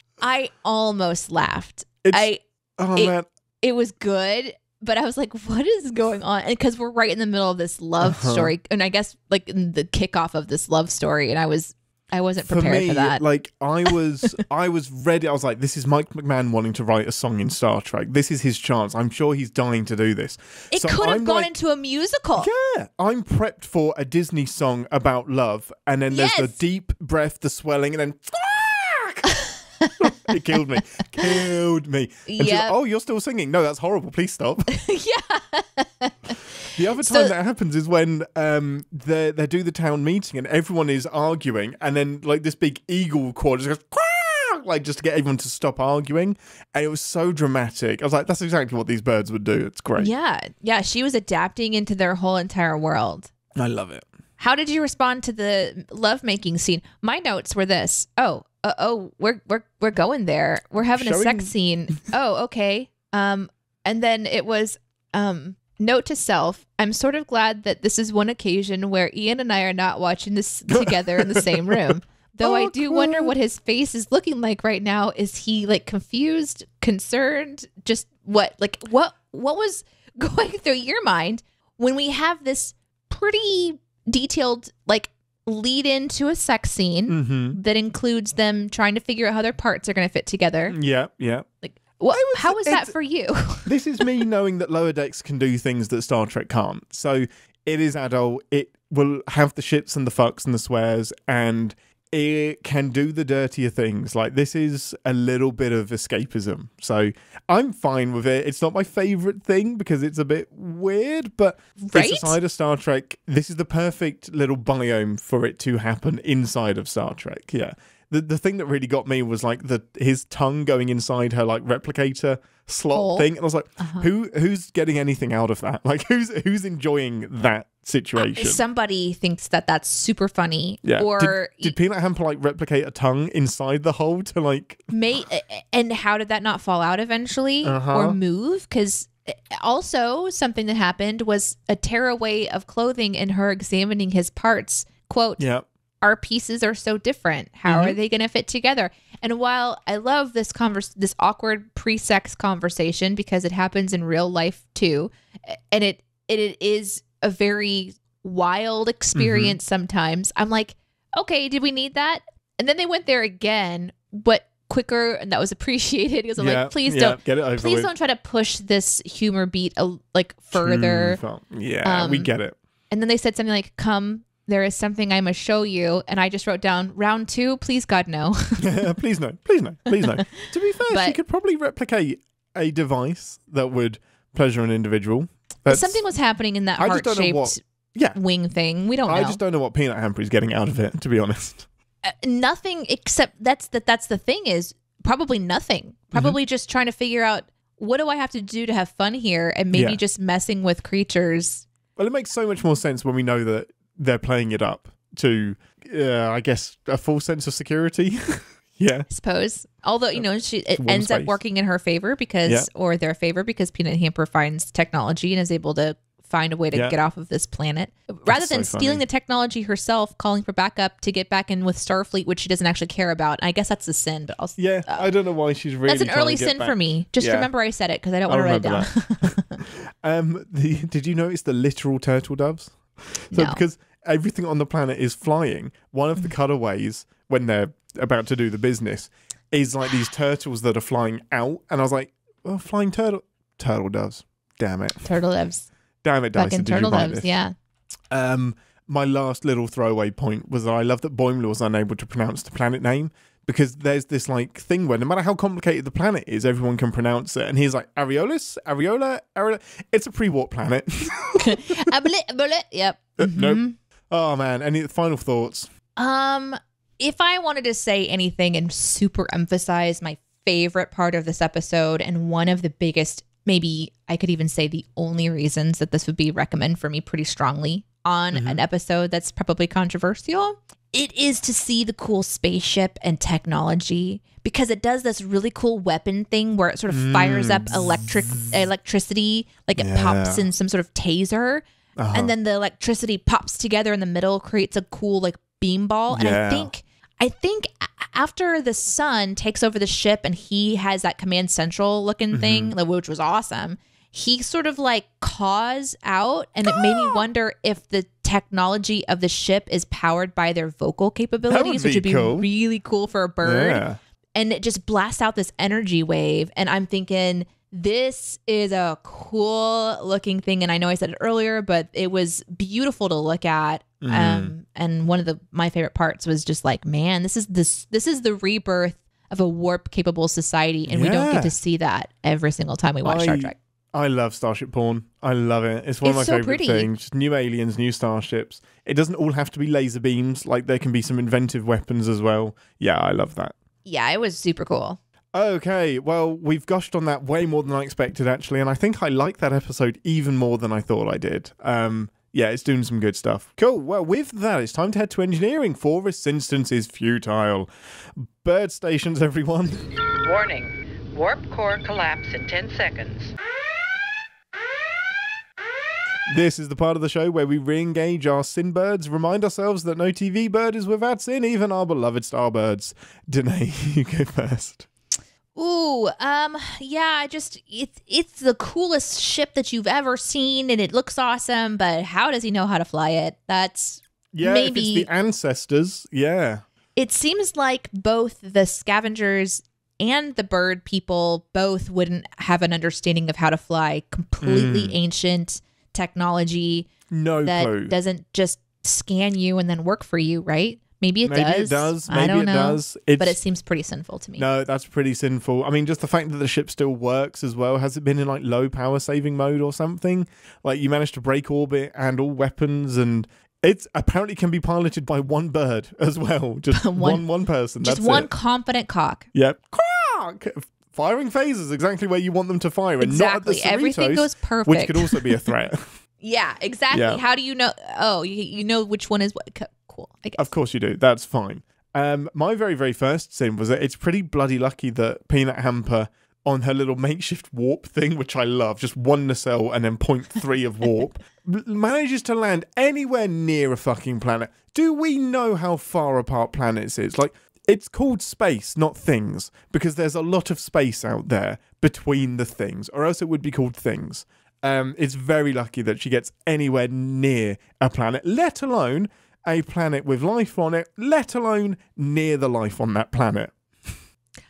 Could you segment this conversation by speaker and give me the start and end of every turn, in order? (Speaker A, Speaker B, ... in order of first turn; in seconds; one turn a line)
Speaker A: 0.2-2.4
Speaker B: 2.0-3.3
Speaker A: 2.9-13.2
Speaker B: 8.0-8.5
Speaker B: 12.4-21.5
Speaker A: 20.7-22.5
Speaker B: 22.4-29.3
Speaker A: 26.1-26.6
Speaker A: 29.8-30.3
Speaker B: 30.0-34.7
Speaker A: 32.3-32.8
Speaker A: 34.7-37.3
Speaker B: 36.7-50.1
Speaker A: 50.0-53.3
Speaker B: 53.5-54.0
Speaker A: 54.4-90.8
Speaker B: 61.0-61.5
Speaker B: 70.7-73.3
Speaker B: 87.1-87.6
Speaker B: 90.7-91.5
Speaker A: 91.6-94.2
Speaker B: 92.1-92.9
Speaker B: 93.6-128.6
Speaker A: 111.8-112.4
Speaker A: 122.9-123.3
Speaker A: 123.8-124.1
Speaker A: 128.2-131.7
Speaker B: 130.8-134.9
Speaker A: 134.9-145.4
Speaker B: 137.6-138.2
Speaker B: 145.4-145.7
Speaker A: 146.0-171.2
Speaker B: 147.7-148.0
Speaker B: 159.2-159.6
Speaker B: 166.4-167.9
Speaker B: 170.6-172.6
Speaker A: 171.8-172.3
Speaker A: 172.9-179.0
Speaker B: 178.6-186.0
Speaker A: 180.0-181.2
Speaker A: 185.7-187.6
Speaker B: 186.8-188.2
Speaker A: 188.1-189.4
Speaker B: 189.1-191.7
Speaker A: 192.0-201.7
Speaker B: 199.7-200.0
Speaker B: 202.0-209.1
Speaker A: 209.1-225.1
Speaker B: 210.2-211.4
Speaker B: 218.3-219.0
Speaker B: 224.6-227.5
Speaker A: 225.9-229.6
Speaker B: 228.3-245.1
Speaker A: 233.3-233.6
Speaker A: 245.0-245.7
Speaker B: 246.0-247.4
Speaker A: 246.3-247.5
Speaker B: 248.1-261.6
Speaker A: 261.4-263.8
Speaker B: 263.2-265.7
Speaker A: 266.0-313.9
Speaker B: 278.3-278.6
Speaker B: 286.9-288.5
Speaker B: 289.8-290.4
Speaker B: 292.0-292.3
Speaker B: 296.1-296.7
Speaker B: 302.3-302.8
Speaker B: 306.7-307.2
Speaker B: 311.5-312.5
Speaker B: 313.4-314.0
Speaker A: 314.4-333.6
Speaker B: 324.0-324.5
Speaker B: 330.9-331.6
Speaker B: 333.0-343.5
Speaker A: 336.0-336.9
Speaker A: 343.9-345.0
Speaker B: 345.3-359.9
Speaker C: 360.2-363.3
Speaker B: 366.3-374.9
Speaker A: 375.6-385.1
Speaker B: 384.3-386.6
Speaker A: 387.0-396.9
Speaker B: 394.4-394.9
Speaker B: 397.1-397.9
Speaker A: 397.4-404.4
Speaker B: 401.2-403.4
Speaker B: 404.4-418.3
Speaker A: 416.7-417.2
Speaker A: 417.8-419.3
Speaker B: 419.3-425.9
Speaker A: 423.0-425.5
Speaker A: 426.2-430.5
Speaker B: 426.9-427.2
Speaker B: 430.4-464.0